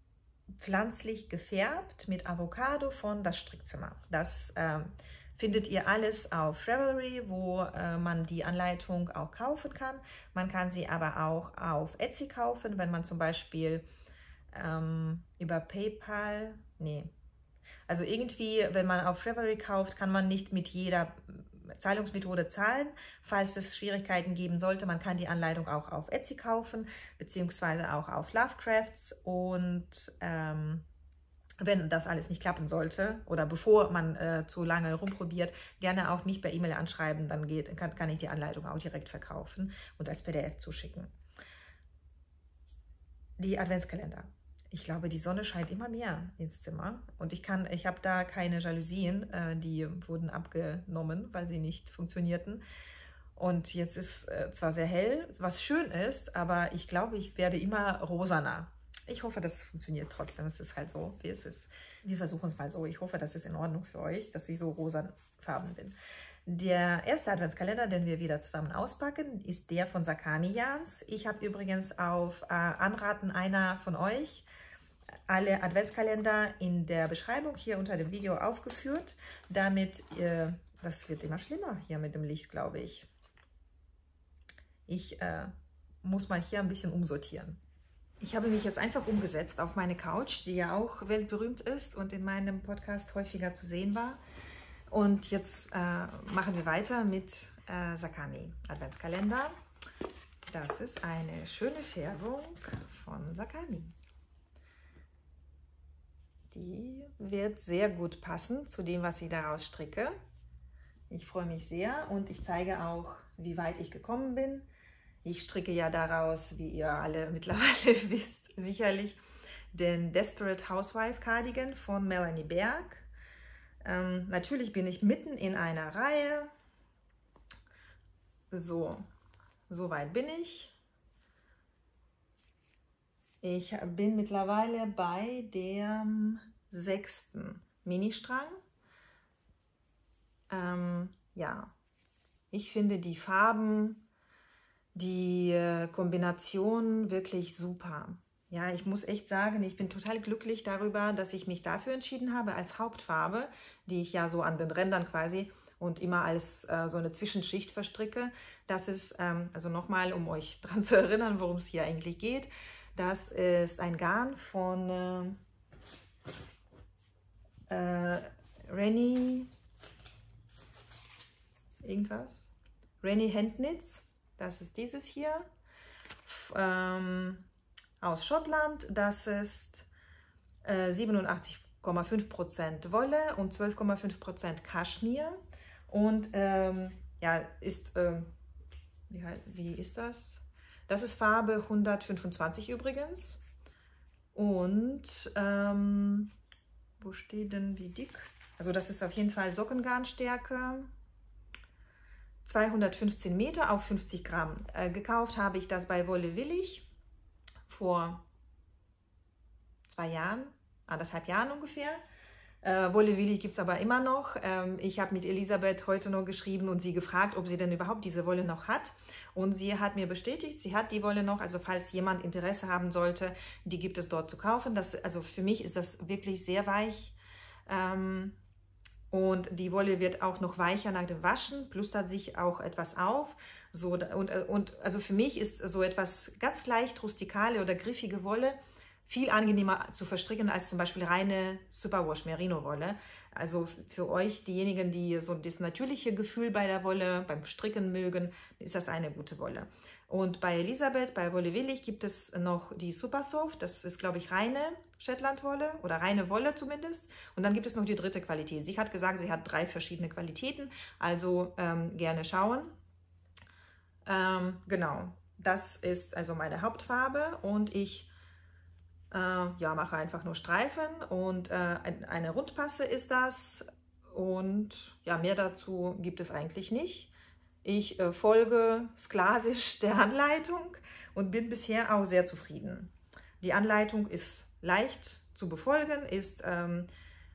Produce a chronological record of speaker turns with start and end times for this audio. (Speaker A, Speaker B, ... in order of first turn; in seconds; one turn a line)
Speaker A: 0.6-13.9
Speaker A: 14.5-17.1
Speaker A: 17.9-30.9
Speaker A: 31.6-41.1
Speaker A: 43.4-52.6
Speaker A: 53.4-74.5
Speaker A: 75.3-83.1
Speaker A: 84.9-87.6
Speaker A: 88.2-94.2
Speaker A: 94.9-99.5
Speaker A: 100.5-104.0
Speaker A: 106.5-110.2
Speaker A: 111.1-114.7
Speaker A: 115.2-119.2
Speaker A: 119.7-123.1
Speaker A: 123.8-126.5
Speaker A: 128.5-129.0
Speaker A: 129.7-130.8
Speaker A: 133.4-138.6
Speaker A: 140.5-141.7
Speaker A: 142.5-144.1
Speaker A: 144.9-165.4
Speaker A: 167.7-169.5
Speaker A: 171.8-172.5
Speaker A: 173.0-175.5
Speaker A: 176.2-177.5
Speaker A: 178.0-179.9
Speaker A: 180.6-185.4
Speaker A: 185.9-188.3
Speaker A: 189.1-193.4
Speaker A: 194.3-196.3
Speaker A: 197.0-200.9
Speaker A: 202.4-206.9
Speaker A: 207.7-208.2
Speaker A: 209.9-212.0
Speaker A: 212.6-227.2
Speaker A: 227.7-228.4
Speaker A: 229.1-262.8
Speaker A: 264.1-268.1
Speaker A: 269.1-277.1
Speaker A: 277.6-286.9